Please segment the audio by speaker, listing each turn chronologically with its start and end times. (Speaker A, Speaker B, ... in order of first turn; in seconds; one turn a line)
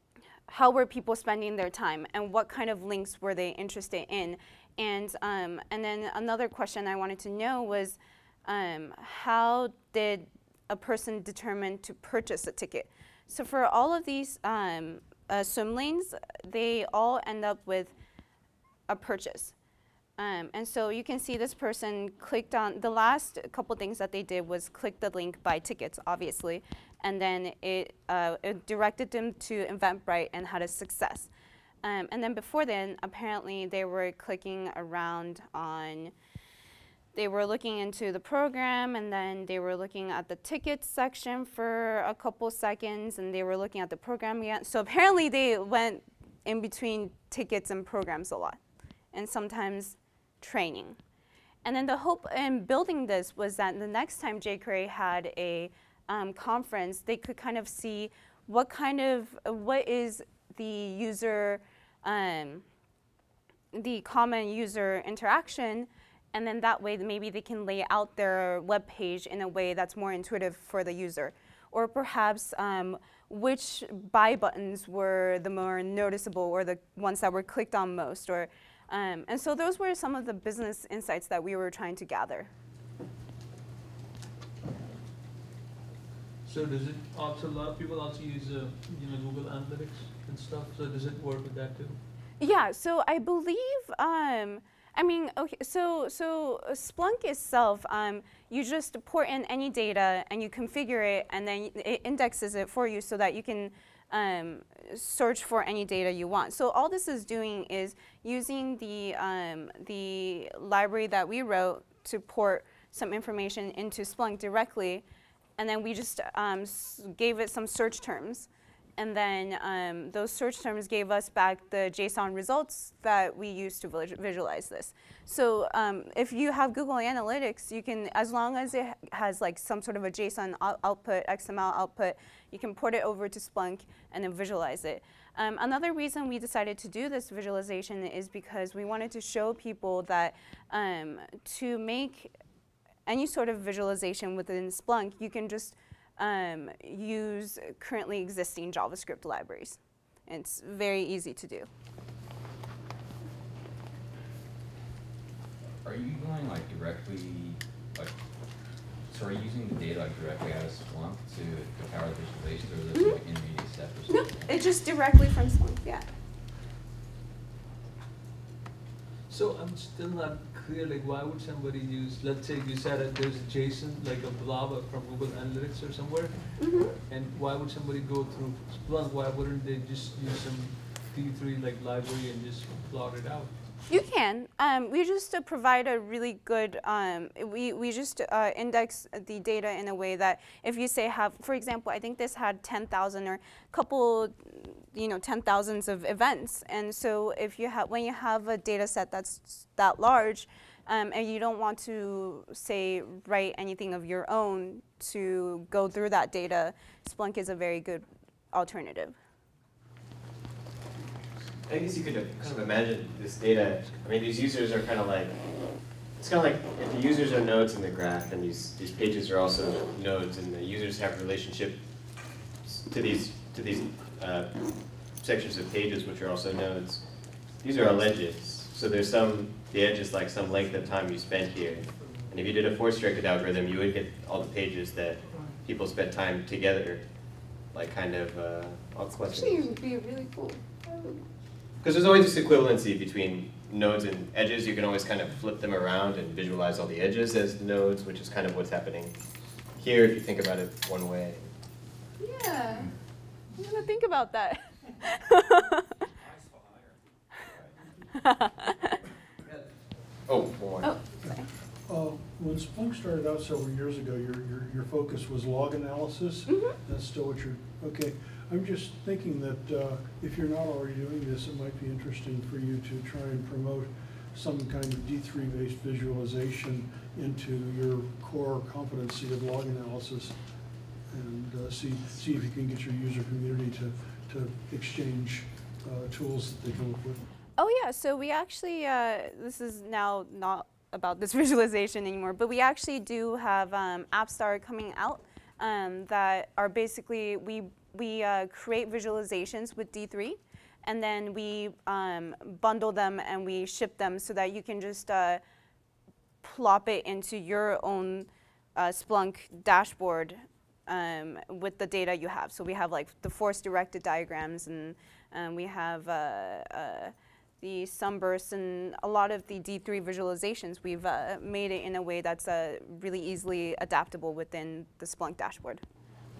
Speaker A: 0.5-17.9
Speaker A: 18.9-19.5
Speaker A: 20.2-31.3
Speaker A: 31.8-36.1
Speaker A: 37.1-48.6
Speaker A: 49.1-51.0
Speaker A: 51.6-62.6
Speaker A: 63.7-82.5
Speaker B: 86.4-92.0
Speaker A: 92.4-115.0
Speaker A: 115.6-142.3
Speaker A: 143.1-151.7
Speaker C: 155.8-158.1
Speaker C: 159.1-164.5
Speaker A: 164.1-166.0
Speaker B: 169.3-183.5
Speaker A: 176.6-176.9
Speaker A: 183.9-209.2
Speaker D: 211.6-215.4
Speaker D: 216.1-221.8
Speaker D: 222.6-237.0
Speaker D: 237.7-239.7
Speaker A: 239.3-241.2
Speaker D: 241.8-249.1
Speaker D: 249.8-251.5
Speaker A: 252.2-252.9
Speaker A: 253.5-255.8
Speaker A: 258.2-259.0
Speaker D: 260.3-260.9
Speaker A: 260.8-261.4
Speaker E: 261.2-280.4
Speaker A: 266.5-266.7
Speaker E: 281.1-287.2
Speaker A: 287.6-305.4
Speaker A: 306.4-325.8